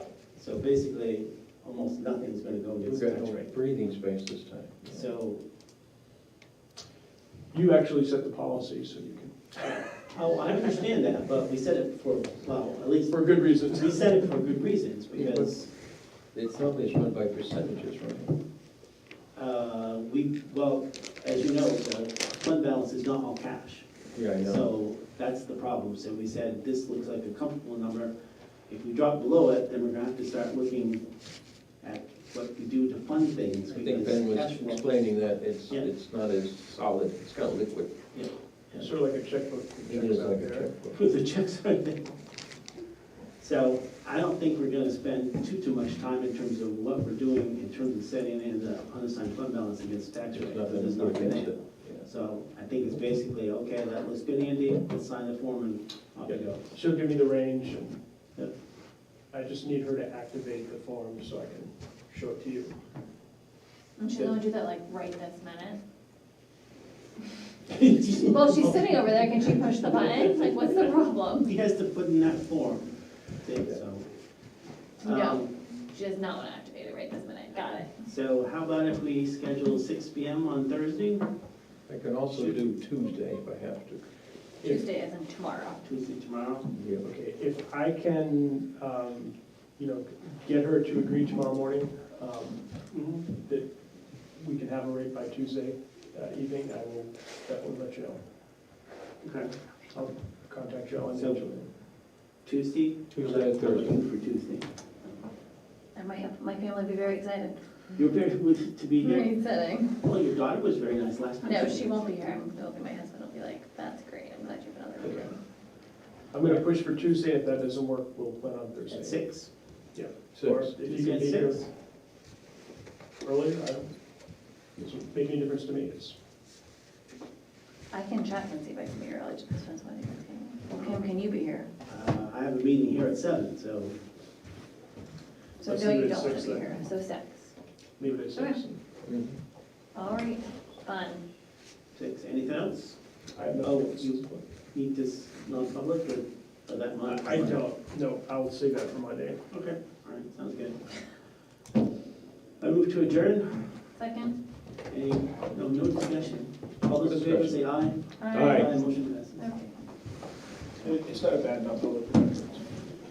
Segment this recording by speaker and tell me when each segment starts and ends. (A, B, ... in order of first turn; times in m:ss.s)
0:00.3-0:03.5 A
0:02.8-0:05.1 B
0:04.9-0:05.4 A
0:07.5-0:09.7 C
0:09.6-0:15.7 A
0:13.1-0:14.4 C
0:15.1-0:15.5 C
0:16.3-0:18.3 B
0:19.3-0:28.1 A
0:24.1-0:24.6 B
0:28.7-0:31.1 A
0:31.7-0:35.1 A
0:33.7-0:38.1 B
0:38.1-0:38.9 A
0:38.8-0:40.7 C
0:39.8-0:41.1 B
0:40.9-0:42.2 A
0:43.4-0:56.7 A
0:50.3-0:52.1 B
0:56.2-0:58.0 C
0:59.3-1:02.8 C
1:04.0-1:05.8 D
1:07.7-1:14.1 A
1:08.2-1:11.5 D
1:15.0-1:15.5 A
1:15.0-1:17.9 D
1:18.0-1:21.3 A
1:21.9-1:24.1 B
1:24.6-1:25.8 D
1:25.8-1:26.7 A
1:26.7-1:27.1 B
1:27.0-1:38.2 C
1:32.9-1:33.2 A
1:39.2-1:39.5 A
1:39.9-1:41.7 C
1:41.1-1:41.4 A
1:42.4-1:44.7 A
1:43.1-1:44.0 B
1:45.9-1:47.6 D
1:47.9-1:52.4 A
1:49.0-1:49.9 D
1:51.4-1:55.4 D
1:55.0-1:55.3 C
1:56.3-2:01.7 C
1:58.9-1:59.5 A
2:00.3-2:00.7 B
2:00.8-2:01.7 A
2:03.2-2:04.0 C
2:04.7-2:06.2 C
2:07.9-2:11.7 D
2:11.8-2:14.0 A
2:15.6-2:17.5 D
2:15.6-2:16.9 C
2:18.0-2:18.8 C
2:19.0-2:19.3 B
2:19.9-2:21.2 D
2:21.9-2:23.0 A
2:23.3-2:24.4 C
2:23.6-2:27.6 A
2:27.0-2:29.4 C
2:29.5-2:31.0 A
2:32.6-2:33.8 A
2:33.9-2:34.4 D
2:34.9-2:39.5 A
2:36.9-2:38.7 B
2:38.2-2:38.7 D
2:39.4-2:39.7 D
2:40.8-2:42.8 C